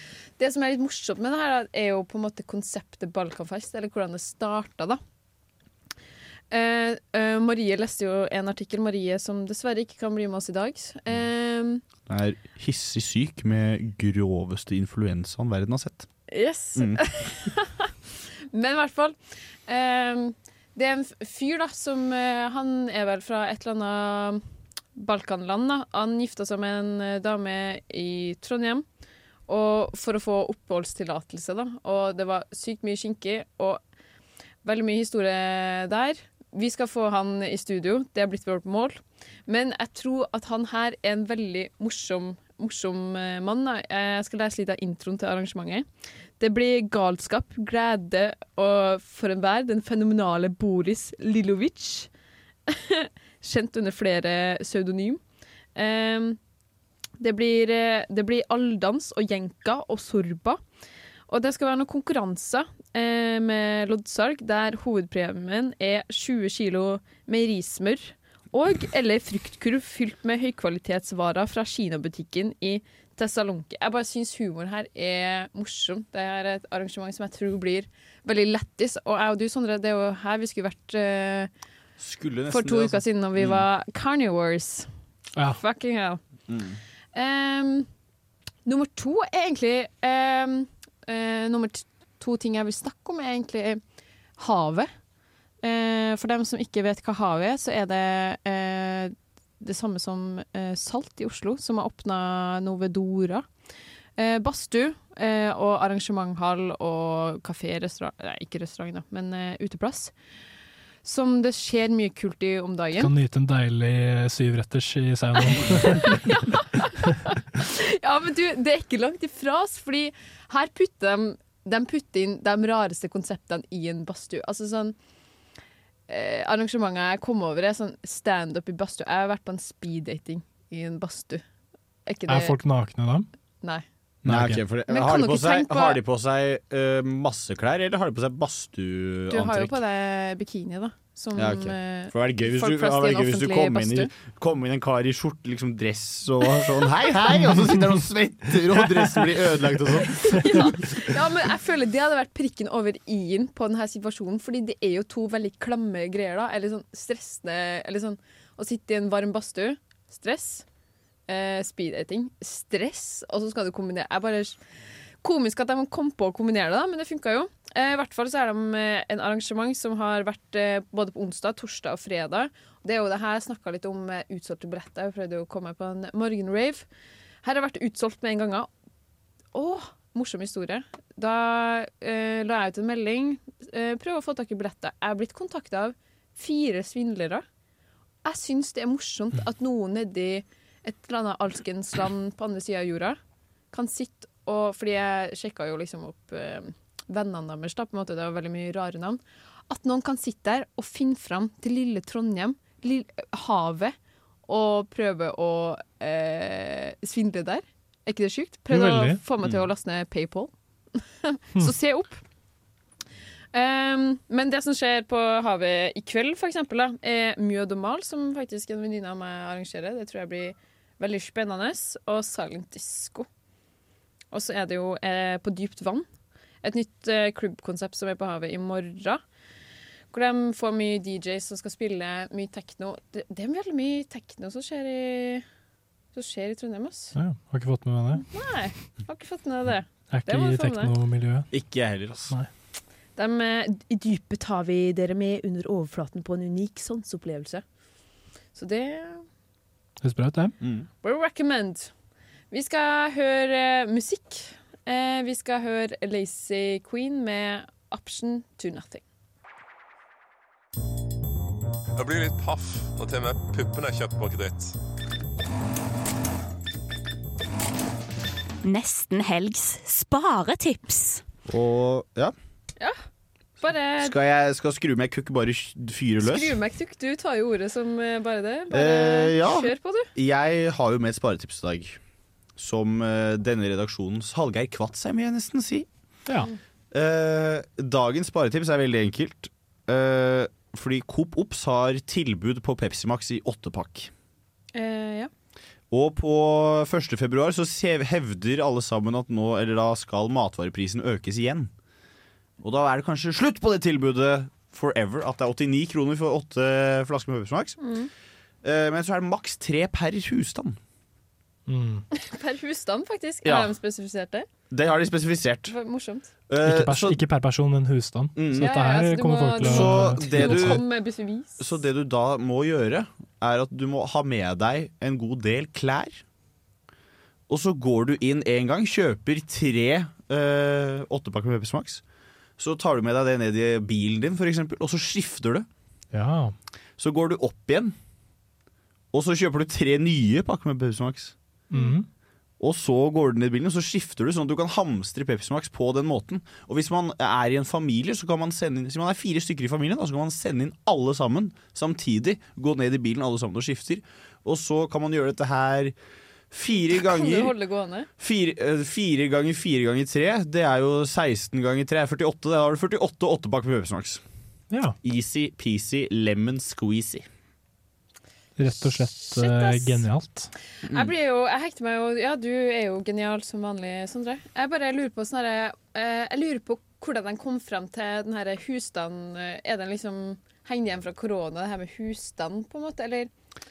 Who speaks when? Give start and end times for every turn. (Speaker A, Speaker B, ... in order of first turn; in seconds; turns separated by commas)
Speaker A: 0.4-5.0, Speaker A: 6.5-11.8, Speaker B: 12.1-16.1, Speaker A: 16.3-17.9, Speaker B: 16.7-17.0, Speaker A: 18.5-24.4, Speaker A: 24.9-28.8, Speaker A: 29.5-33.8, Speaker A: 34.6-45.8, Speaker A: 46.4-52.1, Speaker A: 52.7-55.2, Speaker A: 55.7-56.4, Speaker A: 57.2-60.6, Speaker A: 61.3-81.5, Speaker B: 82.0-83.6, Speaker A: 82.5-84.9, Speaker A: 85.5-86.2, Speaker B: 86.5-86.8, Speaker A: 87.1-87.9, Speaker A: 88.7-93.8, Speaker A: 94.4-94.9, Speaker A: 95.6-103.5, Speaker A: 104.2-110.1, Speaker A: 111.0-113.1, Speaker C: 113.0-116.6, Speaker A: 115.5-124.9, Speaker A: 126.1-131.4, Speaker A: 132.1-132.6, Speaker C: 132.3-133.3, Speaker C: 134.2-134.6, Speaker B: 134.2-139.8, Speaker A: 134.9-136.0, Speaker A: 139.3-144.1, Speaker B: 141.3-150.7, Speaker A: 150.1-160.6, Speaker A: 161.3-164.6, Speaker A: 165.2-176.8, Speaker A: 177.4-178.7, Speaker A: 179.5-187.4, Speaker A: 188.2-193.2, Speaker A: 193.7-203.9, Speaker A: 204.5-210.5, Speaker C: 208.7-209.2, Speaker A: 211.2-212.2, Speaker A: 213.5-223.3, Speaker A: 224.3-226.1, Speaker A: 226.6-229.2, Speaker A: 230.1-235.4, Speaker A: 236.1-237.2, Speaker C: 237.2-238.2, Speaker A: 238.2-240.9, Speaker C: 240.1-241.5, Speaker B: 241.5-242.3, Speaker A: 243.2-247.6, Speaker A: 248.5-249.2, Speaker C: 250.0-250.6, Speaker B: 250.6-250.9, Speaker A: 251.0-251.9, Speaker A: 252.5-259.0, Speaker D: 261.9-264.8, Speaker E: 268.6-271.2, Speaker B: 271.5-272.3, Speaker A: 273.6-274.1, Speaker B: 274.0-276.5, Speaker A: 276.2-280.1, Speaker B: 278.7-282.0, Speaker B: 282.6-285.9, Speaker B: 286.9-294.1, Speaker A: 294.7-295.3, Speaker B: 295.9-301.7, Speaker B: 302.6-307.8, Speaker A: 307.8-308.1, Speaker B: 308.6-310.8, Speaker C: 311.7-312.0, Speaker A: 312.1-314.4, Speaker B: 313.4-313.7, Speaker B: 314.7-315.7, Speaker A: 315.7-316.3, Speaker B: 316.5-317.2, Speaker C: 316.6-320.8, Speaker B: 318.4-318.7, Speaker A: 318.5-321.7, Speaker B: 319.6-320.8, Speaker B: 321.6-326.2, Speaker B: 327.5-332.0, Speaker B: 332.6-335.7, Speaker C: 336.1-336.5, Speaker B: 337.0-337.9, Speaker B: 339.1-341.3, Speaker A: 341.7-342.0, Speaker C: 341.7-342.1, Speaker B: 342.6-355.9, Speaker B: 356.5-357.5, Speaker A: 356.8-358.1, Speaker B: 358.2-364.2, Speaker C: 364.7-364.9, Speaker B: 365.0-367.2, Speaker C: 368.6-370.5, Speaker A: 369.1-370.0, Speaker A: 370.8-383.3